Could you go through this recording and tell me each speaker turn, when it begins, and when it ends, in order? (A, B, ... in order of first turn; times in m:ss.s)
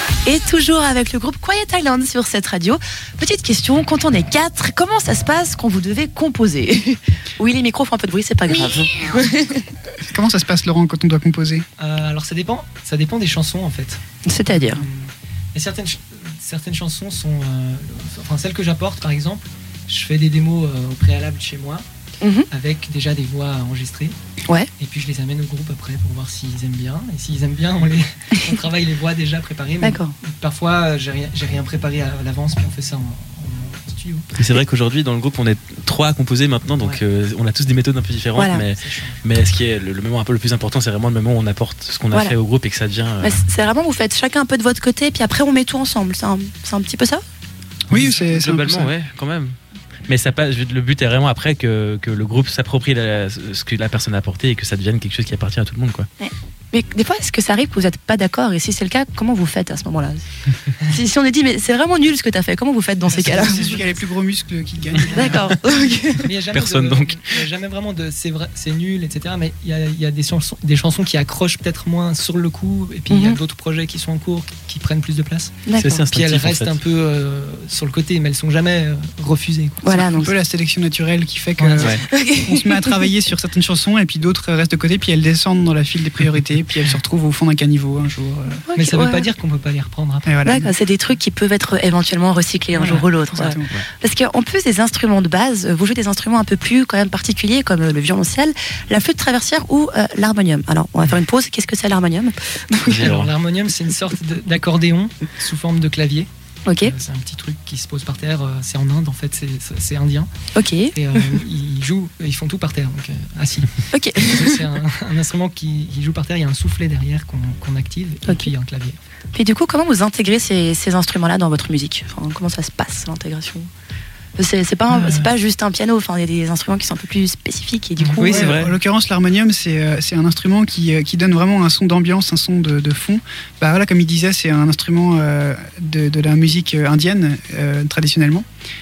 0:00.2-0:09.6 A
0:10.0-0:11.6 B
0:11.8-0:21.8 C
0:14.2-0:14.8 A
0:22.2-0:22.5 A
0:22.5-0:24.2 C
0:24.8-0:34.3 C
0:29.8-0:30.2 A
0:34.3-0:43.4 D
0:38.4-0:38.6 A
0:38.7-0:39.2 C
0:43.2-0:47.2 A
0:47.9-0:48.9 B
0:47.9-0:49.6 D
0:50.1-0:56.1 D
0:56.2-1:00.2 A
1:00.8-1:03.8 A
1:03.1-1:05.6 B
1:03.2-1:03.6 C
1:05.0-1:20.0 C
1:05.1-1:06.3 A
1:06.5-1:07.4 D
1:13.1-1:13.4 A
1:15.7-1:16.0 A
1:15.8-1:16.8 D
1:19.8-1:20.3 A
1:19.9-1:28.6 B
1:21.6-1:21.9 C
1:21.9-1:23.0 A
1:28.7-1:29.3 A
1:28.8-1:30.3 C
1:30.2-1:30.7 B
1:30.4-1:43.0 A
1:32.7-1:33.7 B
1:42.8-1:43.3 D
1:42.8-1:46.3 C
1:46.6-1:46.9 A
1:46.8-1:50.3 C
1:50.5-1:51.2 A
1:50.9-1:59.0 C
1:53.9-1:54.6 A
1:58.2-1:58.5 A
1:59.3-2:03.7 A
2:04.4-2:08.4 A
2:04.9-2:05.3 C
2:08.0-2:08.6 C
2:08.2-2:18.4 B
2:08.4-2:08.7 D